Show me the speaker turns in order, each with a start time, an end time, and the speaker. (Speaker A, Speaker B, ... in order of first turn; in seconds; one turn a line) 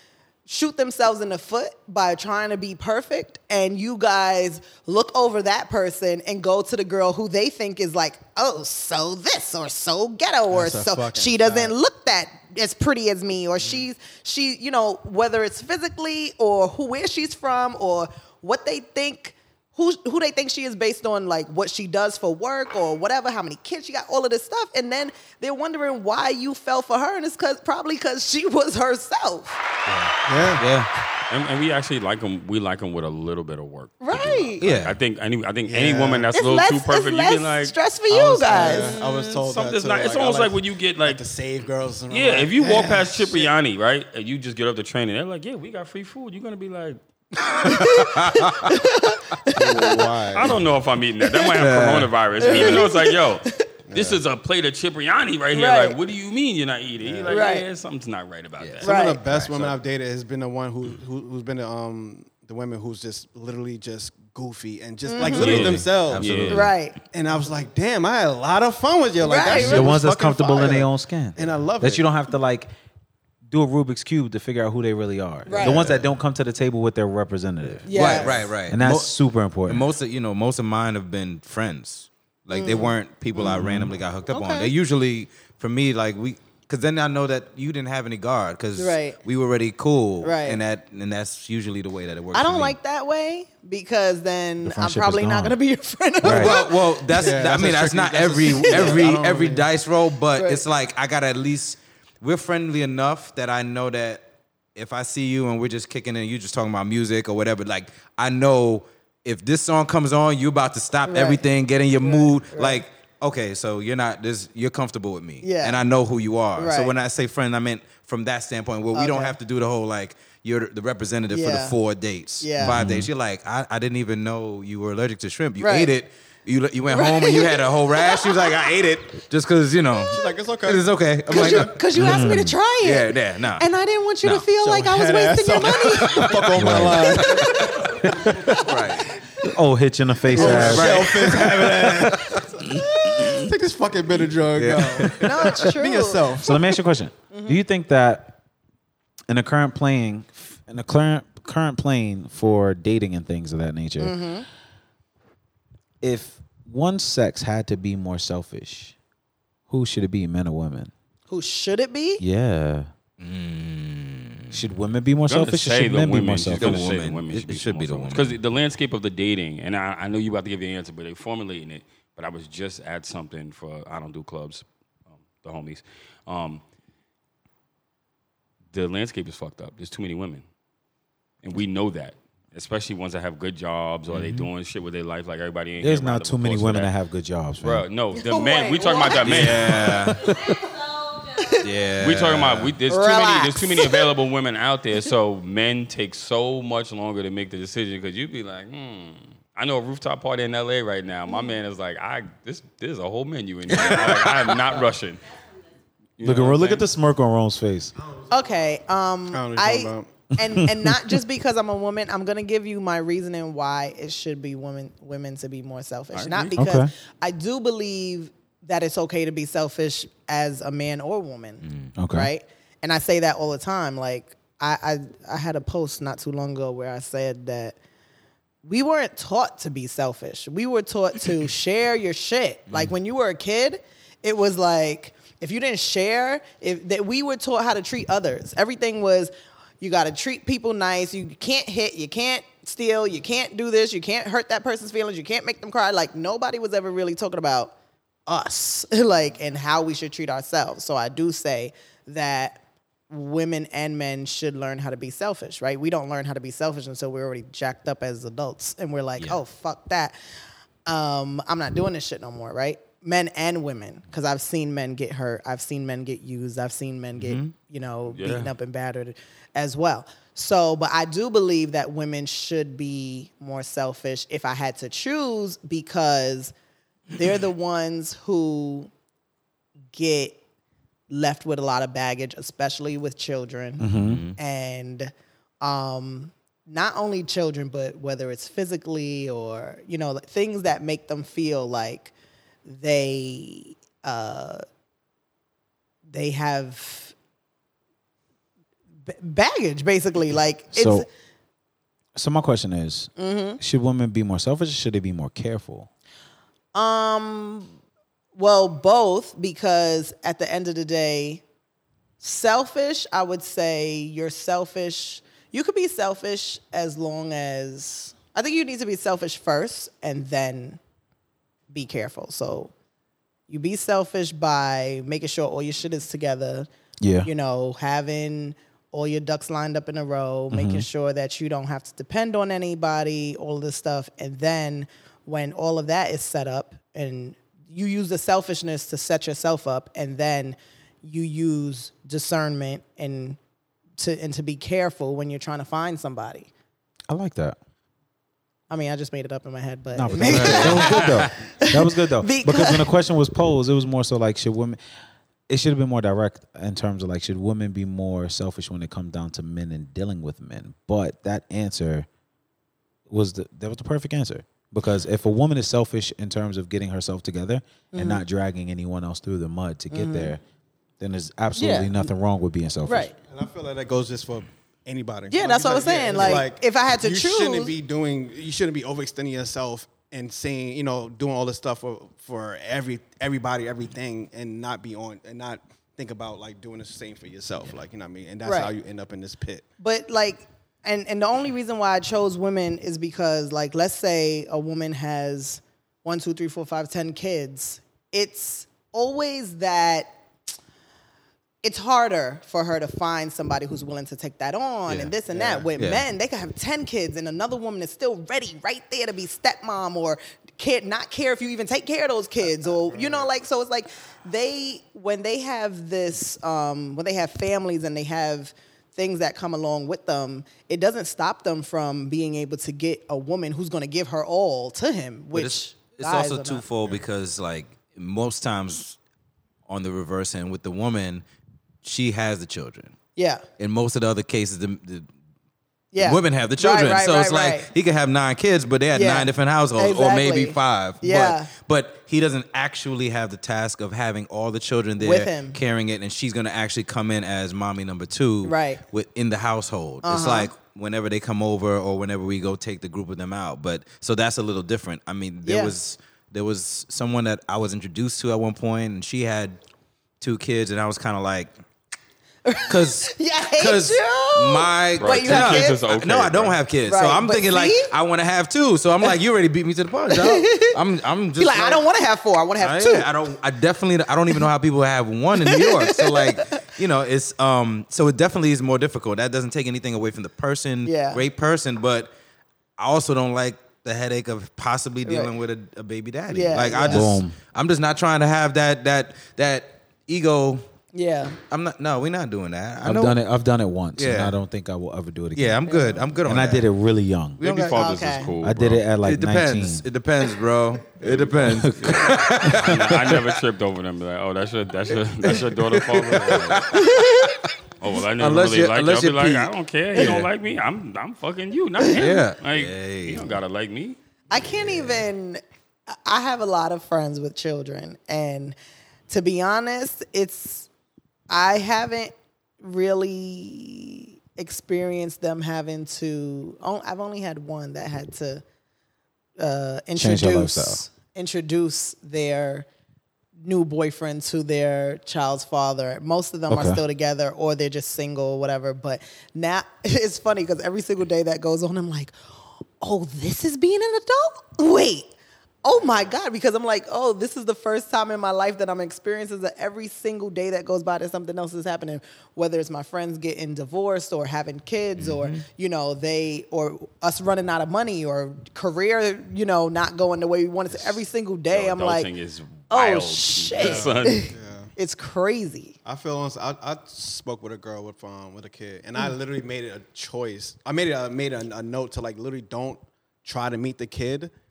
Speaker A: 0.5-29.6
Speaker B: 10.5-11.7
Speaker C: 29.9-30.9
Speaker B: 30.2-30.6
Speaker D: 31.3-37.7
Speaker A: 34.0-34.6
Speaker C: 34.6-35.0
Speaker B: 35.6-36.3
Speaker A: 36.3-39.0
Speaker B: 38.1-43.5
Speaker D: 38.5-41.2
Speaker D: 42.1-47.0
Speaker A: 47.5-50.0
Speaker C: 47.5-48.8
Speaker B: 49.5-50.6
Speaker D: 50.3-58.9
Speaker C: 51.5-52.8
Speaker A: 52.4-53.7
Speaker B: 53.9-54.2
Speaker A: 55.5-56.0
Speaker B: 57.0-57.4
Speaker A: 57.3-57.6
Speaker C: 58.6-59.7
Speaker A: 58.8-59.2
Speaker B: 58.8-66.4
Speaker A: 65.0-65.5
Speaker D: 65.2-66.7
Speaker C: 65.3-66.7
Speaker A: 66.5-67.0
Speaker B: 67.0-72.0
Speaker A: 69.2-69.9
Speaker E: 69.5-72.7
Speaker C: 69.5-69.8
Speaker E: 73.5-79.9
Speaker A: 75.5-75.8
Speaker B: 75.5-75.9
Speaker A: 77.8-78.3
Speaker C: 77.9-79.1
Speaker C: 79.7-92.8
Speaker A: 82.5-82.9
Speaker E: 83.4-83.9
Speaker A: 84.3-84.7
Speaker A: 88.8-89.2
Speaker A: 90.2-90.6
Speaker A: 92.3-97.3
Speaker E: 94.6-95.5
Speaker E: 96.2-96.5
Speaker C: 96.2-133.6
Speaker B: 97.1-99.7
Speaker A: 98.5-99.1
Speaker A: 100.3-100.6
Speaker A: 111.0-111.4
Speaker A: 112.0-112.8
Speaker A: 115.4-115.8
Speaker A: 116.5-116.9
Speaker A: 118.9-119.4
Speaker A: 121.3-121.8
Speaker A: 122.4-122.8
Speaker E: 122.6-123.1
Speaker A: 125.6-125.9
Speaker A: 126.9-128.7
Speaker B: 130.1-130.9
Speaker A: 131.3-136.4
Speaker E: 131.9-132.6
Speaker C: 134.2-134.5
Speaker B: 134.6-138.7
Speaker C: 136.0-139.2
Speaker E: 136.6-137.2
Speaker A: 137.2-138.7
Speaker E: 139.4-141.1
Speaker B: 140.3-146.6
Speaker C: 140.3-143.5
Speaker C: 144.5-145.5
Speaker A: 145.1-146.4
Speaker E: 146.4-148.4
Speaker A: 147.3-147.6
Speaker E: 149.3-154.2
Speaker A: 154.0-154.4
Speaker E: 156.0-158.9
Speaker E: 159.7-160.9
Speaker A: 161.3-162.2
Speaker E: 162.2-162.9
Speaker C: 163.2-164.6
Speaker E: 164.5-166.8
Speaker D: 165.3-176.6
Speaker C: 166.6-168.4
Speaker D: 178.7-180.4
Speaker D: 181.4-186.9
Speaker C: 184.1-184.5
Speaker E: 185.8-187.8
Speaker D: 187.6-190.0
Speaker A: 188.1-189.5
Speaker C: 189.2-190.2
Speaker E: 189.9-190.6
Speaker A: 191.3-191.6
Speaker C: 191.6-192.7
Speaker D: 192.0-205.2
Speaker A: 192.9-194.1
Speaker A: 201.3-201.5
Speaker C: 203.7-204.5
Speaker D: 206.2-206.8
Speaker E: 206.2-207.9
Speaker B: 208.0-208.3
Speaker A: 208.3-227.8
Speaker B: 209.3-210.2
Speaker E: 210.4-211.1
Speaker D: 216.1-216.5
Speaker E: 216.6-216.9
Speaker C: 221.6-221.9
Speaker E: 222.0-222.3
Speaker A: 228.6-247.7
Speaker A: 248.3-260.1
Speaker A: 260.9-276.5
Speaker C: 267.2-267.5
Speaker D: 268.1-268.5
Speaker A: 277.1-278.9
Speaker A: 279.9-280.4
Speaker A: 281.1-292.1
Speaker E: 283.8-284.2
Speaker C: 283.9-284.4
Speaker A: 292.6-294.6
Speaker A: 296.1-297.1
Speaker A: 299.1-301.1
Speaker E: 300.7-301.1
Speaker E: 302.1-305.9
Speaker A: 303.2-303.6
Speaker A: 306.7-307.7
Speaker A: 308.3-311.4
Speaker A: 312.2-320.8
Speaker A: 321.7-322.7
Speaker A: 323.5-326.7
Speaker E: 327.0-327.3
Speaker A: 327.2-343.4
Speaker E: 330.5-330.9
Speaker A: 344.0-346.5
Speaker E: 347.1-347.6
Speaker A: 348.7-352.9
Speaker E: 349.9-354.8
Speaker C: 350.1-351.3
Speaker D: 350.7-351.1
Speaker E: 355.5-362.1
Speaker E: 363.1-370.4
Speaker A: 367.9-368.2
Speaker A: 369.9-370.3
Speaker E: 371.0-373.1
Speaker A: 371.6-372.1
Speaker A: 372.9-373.1
Speaker B: 373.2-389.6
Speaker A: 375.3-377.7
Speaker A: 388.4-388.7
Speaker A: 389.8-400.1
Speaker A: 401.6-426.6
Speaker C: 404.9-405.1
Speaker B: 405.3-405.7
Speaker C: 405.8-406.0
Speaker B: 412.6-413.3
Speaker C: 425.3-429.0
Speaker C: 429.7-431.2
Speaker C: 431.8-432.9
Speaker A: 433.1-433.4
Speaker C: 433.6-435.1
Speaker A: 435.9-437.7
Speaker C: 436.0-459.6
Speaker A: 438.9-441.5
Speaker A: 445.0-445.6
Speaker A: 448.4-448.8
Speaker A: 450.0-450.5
Speaker A: 455.4-455.7
Speaker C: 460.2-461.5
Speaker A: 462.4-465.8
Speaker C: 462.7-471.8
Speaker D: 465.0-466.6
Speaker A: 466.9-467.9
Speaker A: 470.1-470.8
Speaker A: 471.4-473.1
Speaker C: 472.6-482.1
Speaker A: 475.4-476.6
Speaker A: 480.8-481.2
Speaker C: 482.8-490.6
Speaker A: 485.0-485.3
Speaker A: 486.3-487.2
Speaker E: 486.8-487.4
Speaker A: 490.9-491.4
Speaker C: 491.5-493.2
Speaker E: 492.8-495.6
Speaker C: 493.9-494.3
Speaker C: 495.3-496.7
Speaker A: 495.6-496.0
Speaker E: 496.2-497.4
Speaker C: 497.4-498.0
Speaker D: 497.4-498.8
Speaker A: 497.7-498.3
Speaker E: 498.4-499.8
Speaker C: 499.0-503.3
Speaker D: 501.0-506.8
Speaker E: 501.4-502.6
Speaker C: 505.2-507.5
Speaker A: 506.7-507.4
Speaker D: 507.8-514.0
Speaker C: 508.2-510.3
Speaker A: 511.8-512.1
Speaker C: 511.9-513.4
Speaker A: 514.3-518.5
Speaker A: 519.1-520.7
Speaker A: 521.3-528.4
Speaker A: 529.4-532.7
Speaker E: 530.0-530.8
Speaker A: 533.4-545.1
Speaker E: 536.5-536.8
Speaker A: 545.6-562.1
Speaker C: 555.0-555.4
Speaker D: 561.5-564.3
Speaker A: 562.7-565.8
Speaker B: 563.5-564.7
Speaker B: 565.8-574.3